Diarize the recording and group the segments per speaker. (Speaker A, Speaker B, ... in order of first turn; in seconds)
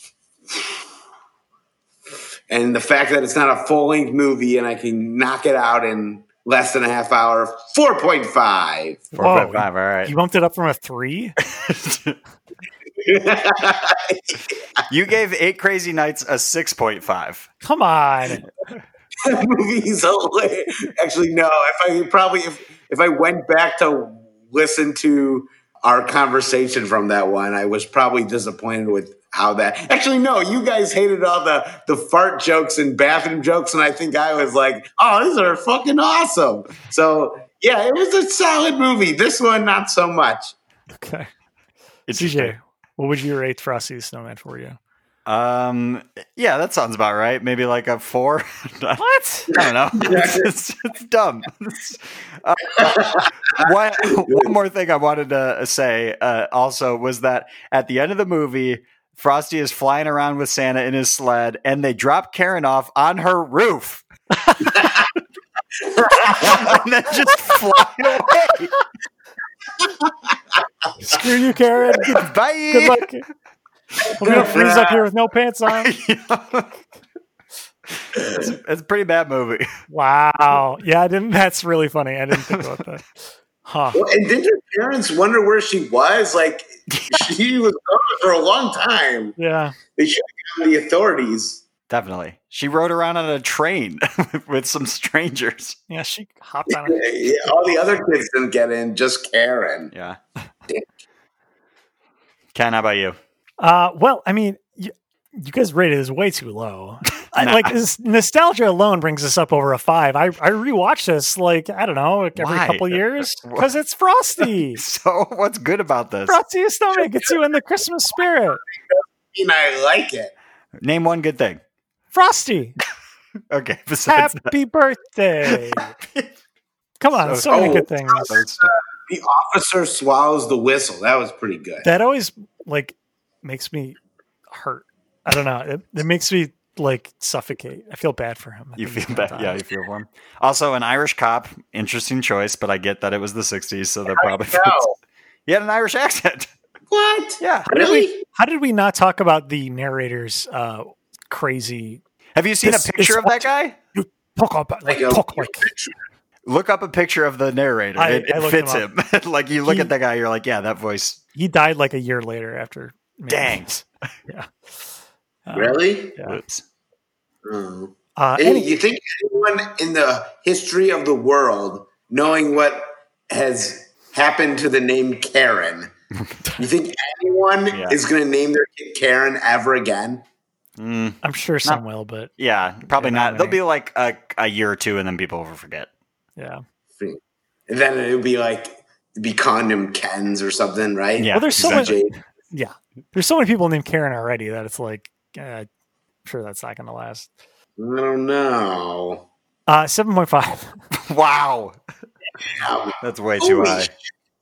Speaker A: 2.5-9.1, 13.0-14.6, 19.2-40.5, 49.6-50.5, 52.8-53.6, 64.8-65.1, 65.8-66.8, 69.8-70.1, 74.0-75.1, 83.9-89.4, 90.0-91.6, 96.7-99.9, 116.9-117.3, 118.5-120.3, 127.5-131.9, 144.1-144.9, 146.9-148.2, 154.9-156.0, 165.5-166.2, 167.4-175.9, 176.6-180.2, 187.0-192.2, 197.8-199.2, 202.4-203.9
Speaker B: 9.1-11.4, 17.6-18.5, 40.9-41.3, 42.1-44.8, 49.0-49.5, 64.4-64.8, 71.0-73.2, 74.2-75.9, 79.9-83.1, 83.7-84.0, 89.4-89.8, 95.9-97.1, 103.6-114.8, 116.3-118.6, 122.1-122.8, 124.1-125.9, 127.0-128.3, 131.8-134.0, 134.5-139.6, 148.3-152.0, 152.6-155.7, 158.0-158.9, 159.7-159.9, 161.4-164.5, 165.5-166.4, 168.2-168.7, 181.2-182.3, 182.9-183.6, 186.4-186.6, 191.3-192.0, 192.5-195.7, 196.3-197.3, 199.7-200.8
Speaker C: 9.2-10.1, 11.5-12.2, 14.9-17.5, 42.1-42.5, 45.3-64.0, 66.3-68.7, 72.0-73.1, 75.7-76.8, 78.0-79.7, 82.3-82.8, 86.9-87.3, 91.9-95.8, 99.9-100.2, 102.5-103.2, 107.3-107.7, 112.3-113.7, 114.4-116.4, 120.8-121.6, 123.5-124.5, 125.4-126.3, 127.1-128.7, 138.8-144.8, 145.5-146.5, 147.4-148.0, 152.3-153.8, 156.4-161.2, 163.3-163.7, 166.3-166.6, 177.7-178.0, 180.8-181.8, 182.4-185.9, 191.2-192.0, 200.9-201.8, 203.0-203.9